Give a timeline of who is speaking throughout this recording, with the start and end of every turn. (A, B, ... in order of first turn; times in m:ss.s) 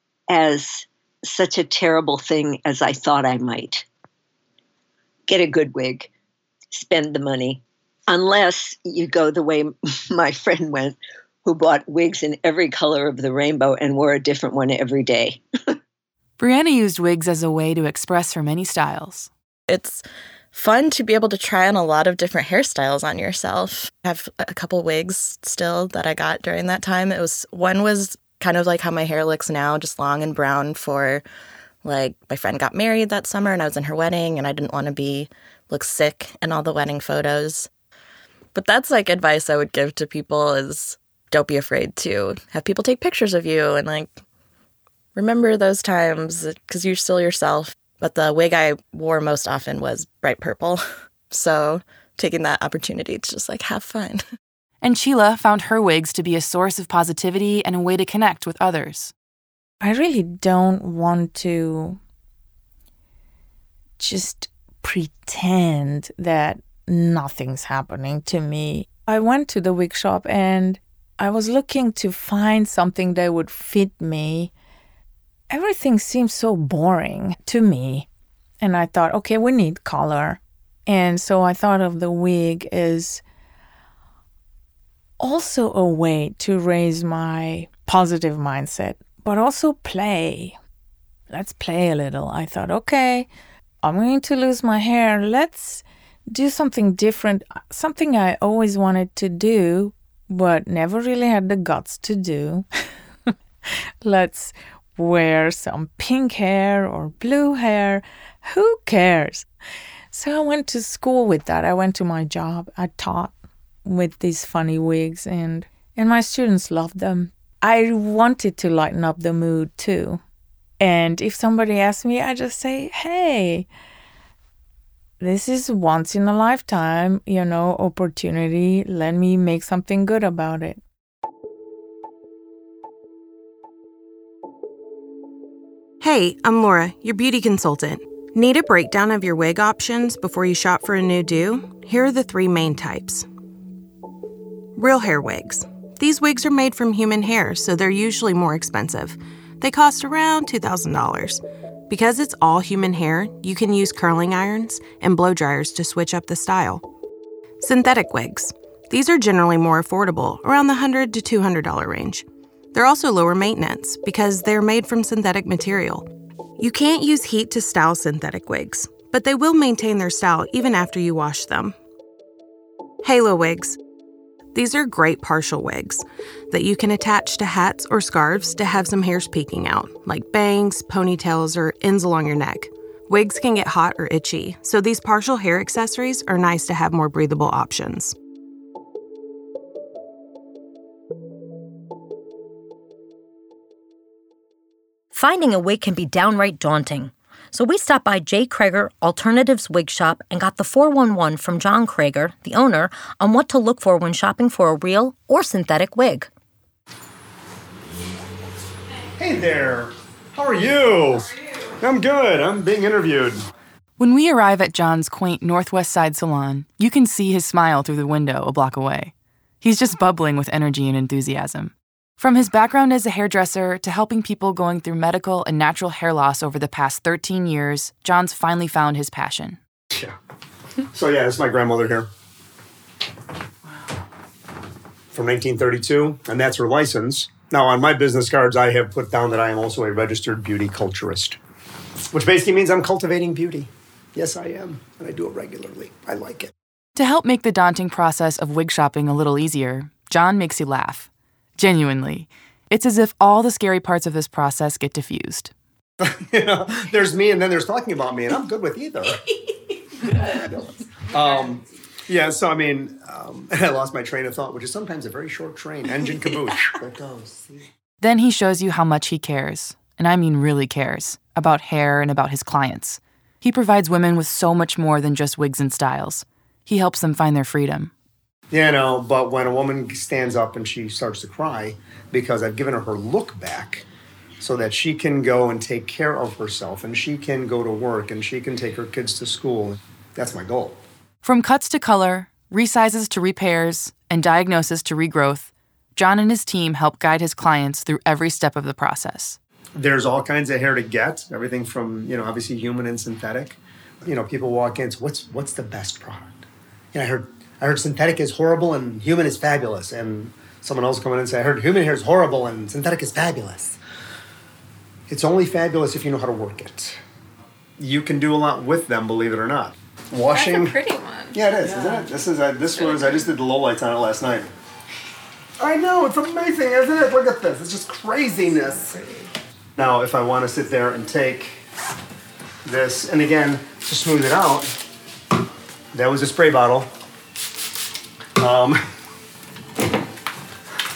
0:00.3-0:03.8 A
0:05.3-0:06.1 A
0:06.7-0:15.4 A
0:16.4-0:19.3 B
0:19.7-0:31.2 C
0:31.8-0:37.7 C
0:38.5-0:44.2 C
0:45.1-0:54.2 C
0:54.8-0:59.1 B
0:59.8-1:02.0 D
1:04.0-1:14.5 D
1:15.5-1:18.1 D
1:18.6-1:23.2 D
1:25.2-1:30.6 D
1:31.3-1:33.3 D
1:33.8-1:42.7 D
1:44.0-1:49.5 D
1:50.1-2:00.2 D
2:00.8-2:03.7 D
2:05.2-2:10.8 D
2:16.0-2:23.3 E
2:24.8-2:36.8 E
2:37.6-2:51.8 E
2:53.0-2:53.8 E
2:54.5-3:08.2 E
3:15.1-3:26.3 F
3:29.2-3:33.4 G
3:34.0-3:49.6 B
3:50.9-3:52.1 G
3:55.1-4:01.4 G
4:02.1-4:06.5 G
4:06.9-4:15.5 B
4:16.0-4:19.2 G
4:20.2-4:27.6 G
4:28.0-4:37.9 B
4:38.5-4:43.9 G
4:44.4-4:50.8 G
4:51.2-4:59.4 B
4:59.8-5:06.4 G
5:06.9-5:13.8 G
5:15.1-5:17.0 G
5:17.8-5:24.5 G
5:25.6-5:29.2 G
5:29.8-5:31.6 G
5:32.6-5:34.7 G
5:35.9-5:36.9 G
5:38.4-5:38.8 G